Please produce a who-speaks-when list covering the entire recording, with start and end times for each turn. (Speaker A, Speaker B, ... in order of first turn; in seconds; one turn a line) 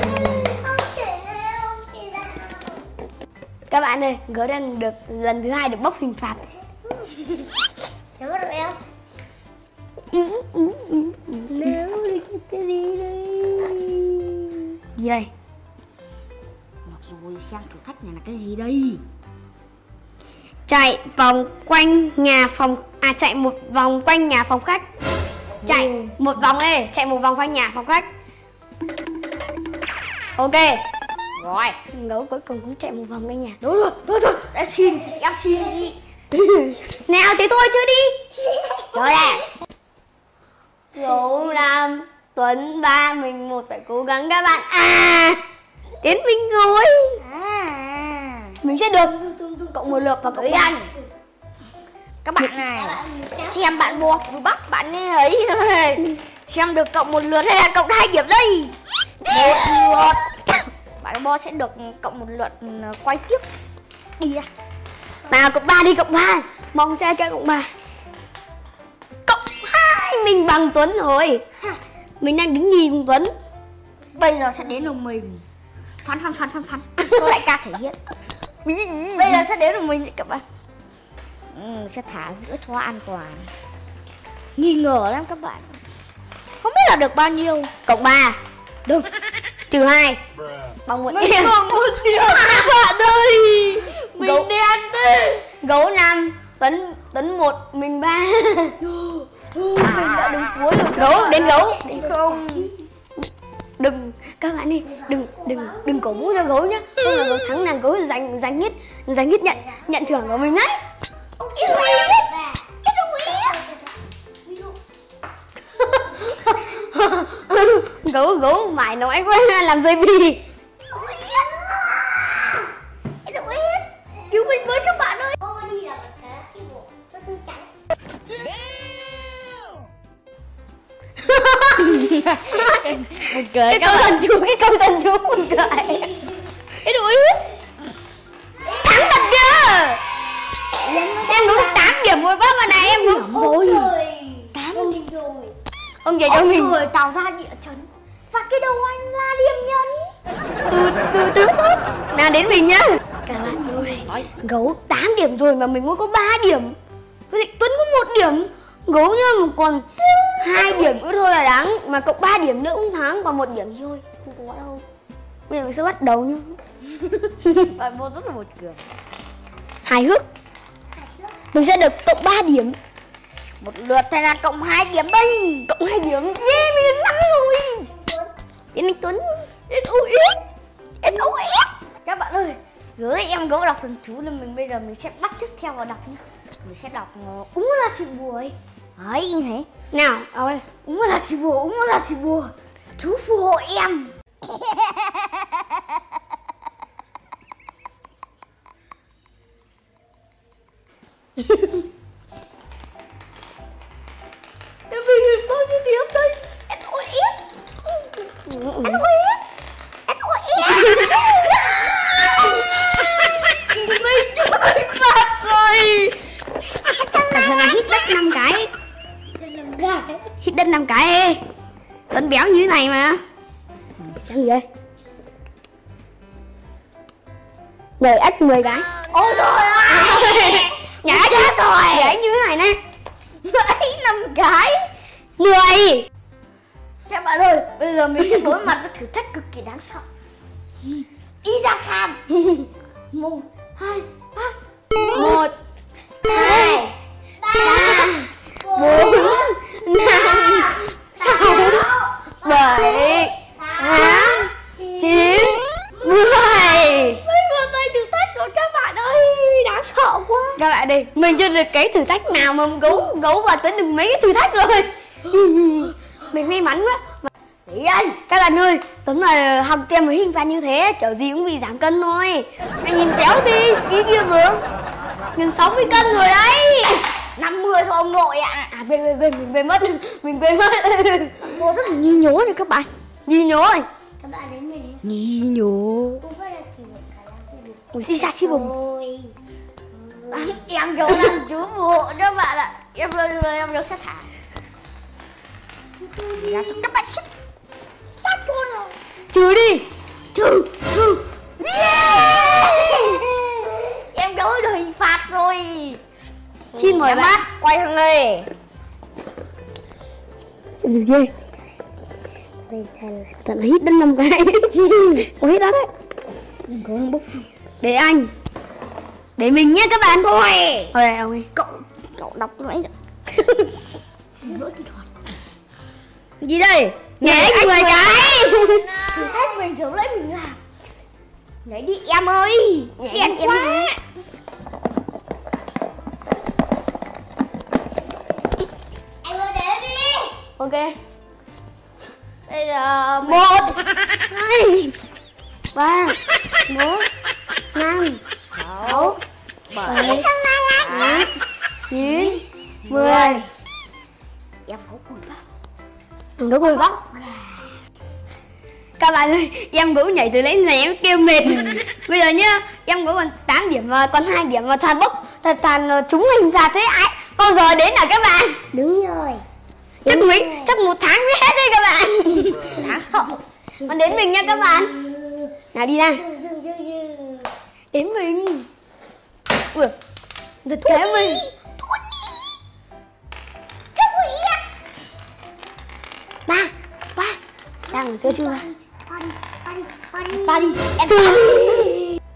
Speaker A: 0.2-2.9
Speaker B: 3.7-6.5
Speaker A: 8.2-8.8
Speaker B: 10.1-11.5
Speaker A: 11.5-13.8
Speaker B: 14.9-15.3
Speaker C: 16.9-19.0
Speaker B: 20.7-24.8
Speaker C: 25.6-26.1
Speaker B: 25.6-28.1
Speaker B: 30.4-30.8
Speaker C: 31.4-31.8
Speaker B: 31.9-33.6
Speaker C: 33.6-36.0
Speaker B: 36.3-38.2
Speaker A: 38.6-38.9
Speaker C: 38.9-39.5
Speaker B: 40.9-45.4
Speaker B: 46.0-47.2
Speaker C: 47.2-48.5
Speaker B: 48.6-49.1
Speaker A: 49.0-50.2
Speaker B: 49.7-50.8
Speaker C: 50.2-50.9
Speaker A: 50.7-51.0
Speaker C: 52.2-58.7
Speaker A: 52.5-54.3
Speaker B: 59.2-60.0
Speaker C: 59.3-60.2
Speaker C: 61.0-63.4
Speaker C: 64.2-64.5
Speaker B: 65.3-67.7
Speaker B: 69.3-71.4
Speaker B: 72.2-73.3
Speaker C: 74.1-75.4
Speaker C: 76.0-78.0
Speaker B: 78.6-79.5
Speaker C: 79.2-80.4
Speaker C: 81.5-83.5
Speaker C: 84.6-85.8
Speaker C: 86.6-87.7
Speaker B: 87.9-88.4
Speaker B: 89.7-90.2
Speaker B: 90.8-91.5
Speaker C: 91.1-95.5
Speaker B: 94.2-94.5
Speaker B: 95.6-98.8
Speaker C: 98.8-102.7
Speaker B: 100.9-102.1
Speaker A: 101.7-102.7
Speaker B: 103.8-110.8
Speaker A: 104.8-106.6
Speaker A: 109.5-110.5
Speaker A: 111.4-114.8
Speaker C: 111.5-112.3
Speaker C: 112.8-113.6
Speaker A: 116.2-116.5
Speaker B: 117.0-120.4
Speaker A: 120.9-122.7
Speaker A: 123.2-127.7
Speaker C: 124.3-125.4
Speaker B: 131.2-133.1
Speaker C: 131.8-134.2
Speaker B: 133.7-136.2
Speaker C: 136.8-137.5
Speaker A: 138.7-139.4
Speaker B: 138.7-140.0
Speaker C: 140.8-142.0
Speaker B: 141.2-144.3
Speaker C: 142.6-143.9
Speaker A: 143.4-145.5
Speaker C: 144.5-145.0
Speaker B: 146.0-146.8
Speaker C: 146.3-150.1
Speaker B: 150.7-156.8
Speaker C: 153.4-154.3
Speaker B: 157.3-159.8
Speaker B: 160.4-164.8
Speaker C: 160.6-160.9
Speaker B: 165.5-166.6
Speaker C: 167.1-168.8
Speaker B: 169.8-170.2
Speaker A: 170.9-171.4
Speaker B: 171.5-172.8
Speaker C: 173.6-175.7
Speaker B: 175.7-177.9
Speaker A: 177.9-178.3
Speaker B: 178.7-179.4
Speaker C: 179.7-180.4
Speaker C: 181.0-189.7
Speaker B: 189.9-190.6
Speaker C: 190.8-195.0
Speaker B: 201.4-201.8
Speaker C: 204.9-207.4
Speaker B: 208.4-209.0
Speaker C: 208.8-209.4
Speaker C: 210.1-216.2
Speaker B: 210.7-211.1
Speaker C: 216.8-218.1
Speaker B: 217.3-218.7
Speaker A: 219.6-219.9
Speaker B: 220.3-221.4
Speaker B: 222.1-223.2
Speaker B: 224.2-224.6
Speaker B: 228.0-228.9
Speaker C: 229.1-232.2
Speaker B: 230.0-232.8
Speaker C: 233.4-234.9
Speaker B: 235.4-236.1
Speaker C: 237.1-240.1
Speaker C: 241.4-245.4
Speaker B: 245.1-245.5
Speaker B: 246.3-246.9
Speaker C: 246.3-246.8
Speaker A: 246.3-246.8
Speaker A: 247.4-255.5
Speaker C: 247.6-248.0
Speaker B: 247.6-251.8
Speaker C: 251.2-251.8
Speaker B: 252.4-257.2
Speaker C: 253.8-254.5
Speaker C: 256.2-260.6
Speaker B: 260.5-267.3
Speaker C: 265.5-265.9
Speaker C: 267.6-268.2
Speaker B: 268.3-274.6
Speaker B: 275.3-277.1
Speaker C: 277.4-278.7
Speaker B: 278.7-281.5
Speaker C: 281.4-282.9
Speaker A: 281.7-282.1
Speaker B: 283.2-283.9
Speaker A: 284.2-285.1
Speaker C: 285.0-286.2
Speaker A: 286.2-289.4
Speaker B: 287.9-288.7
Speaker A: 289.9-290.6
Speaker C: 290.3-294.3
Speaker A: 296.0-296.9
Speaker C: 296.3-297.2
Speaker C: 298.2-298.9
Speaker B: 299.3-299.9
Speaker C: 300.3-306.0
Speaker B: 306.7-307.4
Speaker C: 306.8-308.5
Speaker B: 310.8-311.3
Speaker A: 312.7-313.3
Speaker B: 313.3-315.9
Speaker C: 314.8-315.2
Speaker C: 316.7-317.5
Speaker B: 317.8-318.3
Speaker B: 319.4-320.3
Speaker C: 320.1-320.9
Speaker B: 320.9-321.5
Speaker C: 321.6-322.9
Speaker C: 324.4-325.1
Speaker C: 326.4-330.6
Speaker B: 327.2-329.1
Speaker A: 328.4-329.6
Speaker C: 331.6-334.0
Speaker B: 333.0-333.9
Speaker A: 339.2-340.4
Speaker B: 340.6-340.9
Speaker C: 342.5-344.2
Speaker B: 343.2-343.8
Speaker B: 344.3-344.9
Speaker B: 345.7-347.1
Speaker B: 347.7-348.2
Speaker C: 348.5-351.3
Speaker B: 348.8-349.2
Speaker B: 349.8-350.3
Speaker B: 350.9-351.3
Speaker B: 351.9-353.4
Speaker C: 351.9-353.5
Speaker C: 354.6-355.4
Speaker B: 356.4-357.0
Speaker C: 356.7-357.7
Speaker B: 359.0-368.6
Speaker A: 368.7-369.4
Speaker B: 370.0-372.8
Speaker A: 370.1-370.7
Speaker C: 372.7-373.4
Speaker B: 373.9-374.9
Speaker A: 373.9-375.5
Speaker B: 375.7-376.2
Speaker A: 376.1-377.5
Speaker B: 377.9-378.7
Speaker B: 380.6-381.4
Speaker C: 380.9-382.5
Speaker C: 384.0-384.6
Speaker C: 386.5-387.4
Speaker A: 387.9-390.9
Speaker B: 387.9-388.7
Speaker C: 390.3-392.2
Speaker B: 391.0-391.9